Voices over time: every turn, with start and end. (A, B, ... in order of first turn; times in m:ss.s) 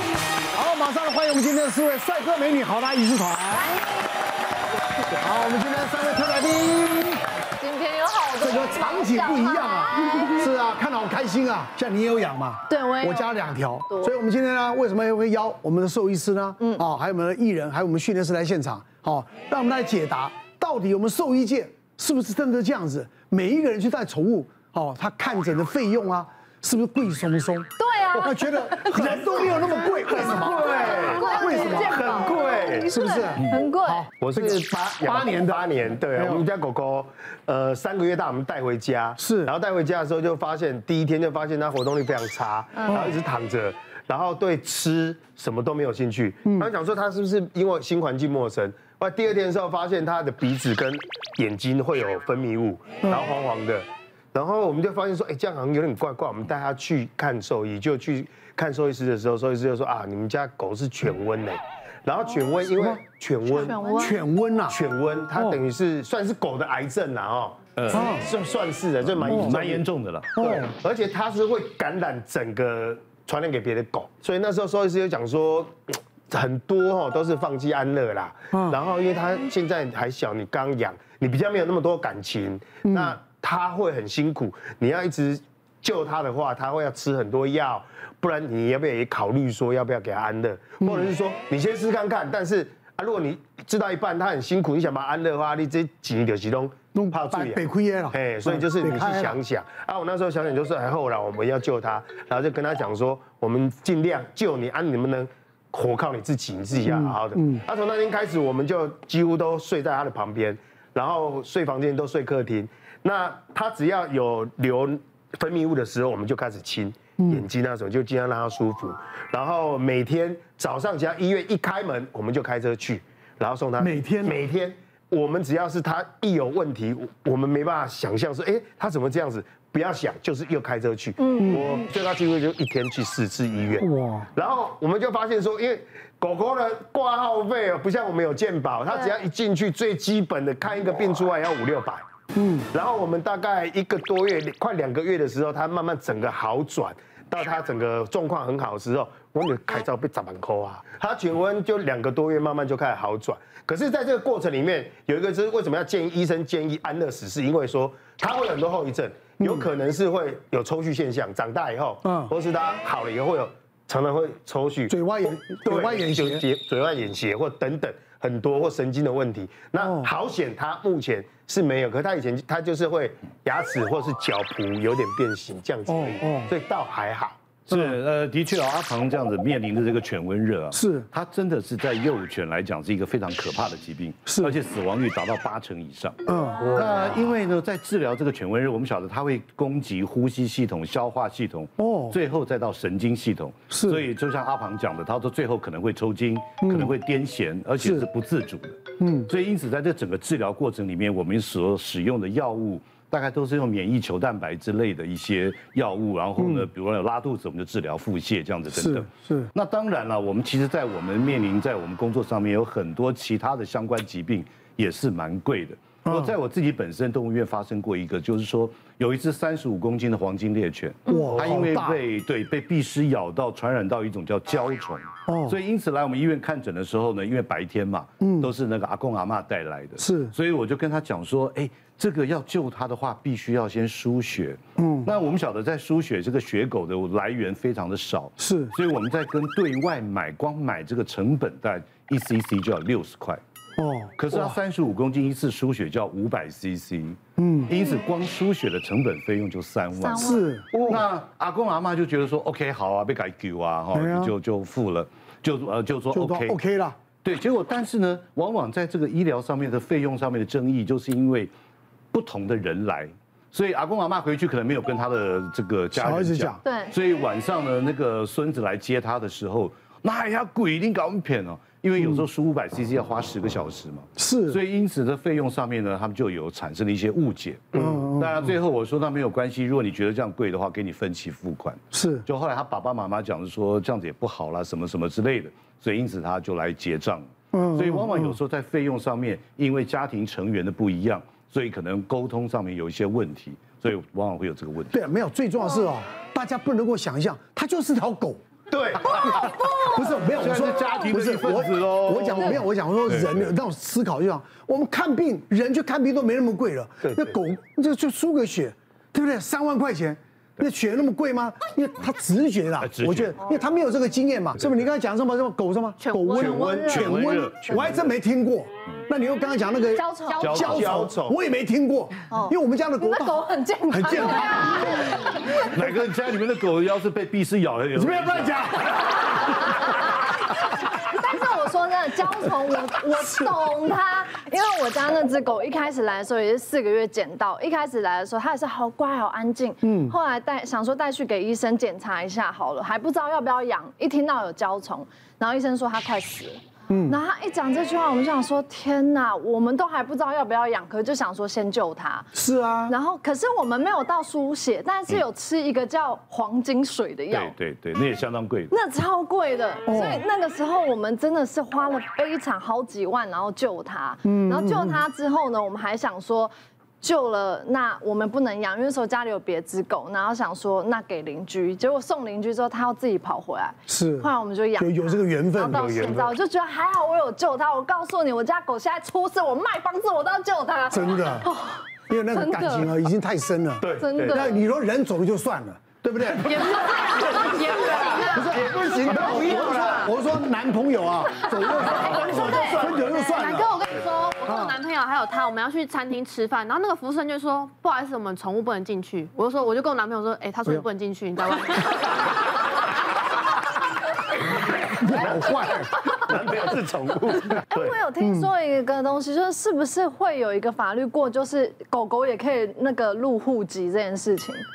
0:00.5-0:03.8 A
0:05.1-0:07.2 A
0:07.6-0:10.5 B
0:08.4-0:27.7 A
0:12.7-0:13.4 B
0:27.8-0:34.1 B
0:28.2-0:32.1 A
0:30.1-0:32.9 C
0:32.8-0:36.4 A
0:34.2-1:03.8 C
0:39.2-0:39.5 A
0:42.9-0:43.1 A
1:03.5-1:04.2 B
1:03.9-1:04.8 A
1:04.7-1:09.8 C
1:07.8-1:08.1 D
1:07.9-1:08.3 A
1:09.2-1:10.4 D
1:09.2-1:09.6 A
1:10.4-1:10.7 A
1:10.4-2:22.0 C
1:22.8-1:23.1 A
1:30.8-1:31.1 A
1:36.9-1:39.4 A
1:46.8-1:47.6 A
1:57.2-1:57.4 A
2:03.8-2:04.4 A
2:11.2-2:11.7 B
2:13.8-2:14.3 A
2:22.4-2:22.6 A
2:22.7-2:57.4 C
2:39.4-2:39.7 A
2:42.0-2:42.3 A
2:44.9-2:46.4 A
2:49.8-2:50.1 A
2:55.9-2:56.5 A
2:57.7-3:06.2 D
3:00.7-3:01.1 A
3:04.3-3:04.6 A
3:06.3-3:06.8 A
3:06.6-3:06.9 C
3:06.7-4:03.4 D
3:11.8-3:12.2 A
3:13.7-3:14.0 A
3:16.6-3:16.9 A
3:17.8-3:18.1 A
3:19.0-3:19.3 A
3:26.4-3:26.7 A
3:28.7-3:29.5 A
3:36.1-3:36.3 A
3:41.1-3:42.0 A
3:45.3-3:45.6 A
3:48.2-3:48.5 A
3:50.0-3:50.4 A
3:54.8-3:55.1 A
3:58.4-3:58.7 A
4:03.8-4:04.6 A
4:04.2-4:16.6 D
4:07.4-4:07.7 A
4:09.9-4:10.6 B
4:10.1-4:10.7 A
4:13.9-4:14.3 A
4:16.1-4:17.0 A
4:17.2-4:21.5 D
4:22.1-4:55.0 D
4:25.9-4:26.6 A
4:26.6-4:26.9 B
4:34.2-4:34.6 A
4:37.8-4:38.4 A
4:41.9-4:42.3 A
4:47.5-4:48.4 A
4:54.9-4:58.4 A
4:58.7-4:59.5 C
4:59.0-5:25.1 A
5:00.3-5:03.5 D
5:07.0-5:07.3 C
5:12.8-5:13.6 D
5:16.1-5:16.6 E
5:16.4-5:17.3 C
5:16.9-5:18.1 D
5:19.9-5:20.7 B
5:20.4-5:20.8 D
5:20.4-5:21.4 C
5:22.3-5:25.6 B
5:25.5-5:28.6 D
5:28.0-5:28.9 A
5:30.9-5:52.3 B
5:39.8-5:40.2 A
5:46.9-5:47.2 A
5:52.3-5:53.0 A
5:52.9-5:57.6 B
5:57.3-5:58.7 D
5:58.7-6:22.9 B
5:59.9-6:00.2 A
6:04.2-6:05.0 A
6:13.9-6:15.9 A
6:15.7-6:16.3 C
6:20.9-6:21.5 A
6:22.1-6:26.9 A
6:23.8-6:24.4 C
6:24.0-6:24.6 B
6:26.7-6:28.4 B
6:27.4-6:30.2 C
6:27.6-6:33.8 A
6:31.5-6:33.6 C
6:32.0-6:32.8 B
6:33.2-6:41.8 E
6:34.4-6:34.8 A
6:44.9-6:45.9 A
6:45.1-6:48.0 C
6:47.7-6:54.6 B
6:48.2-6:48.5 A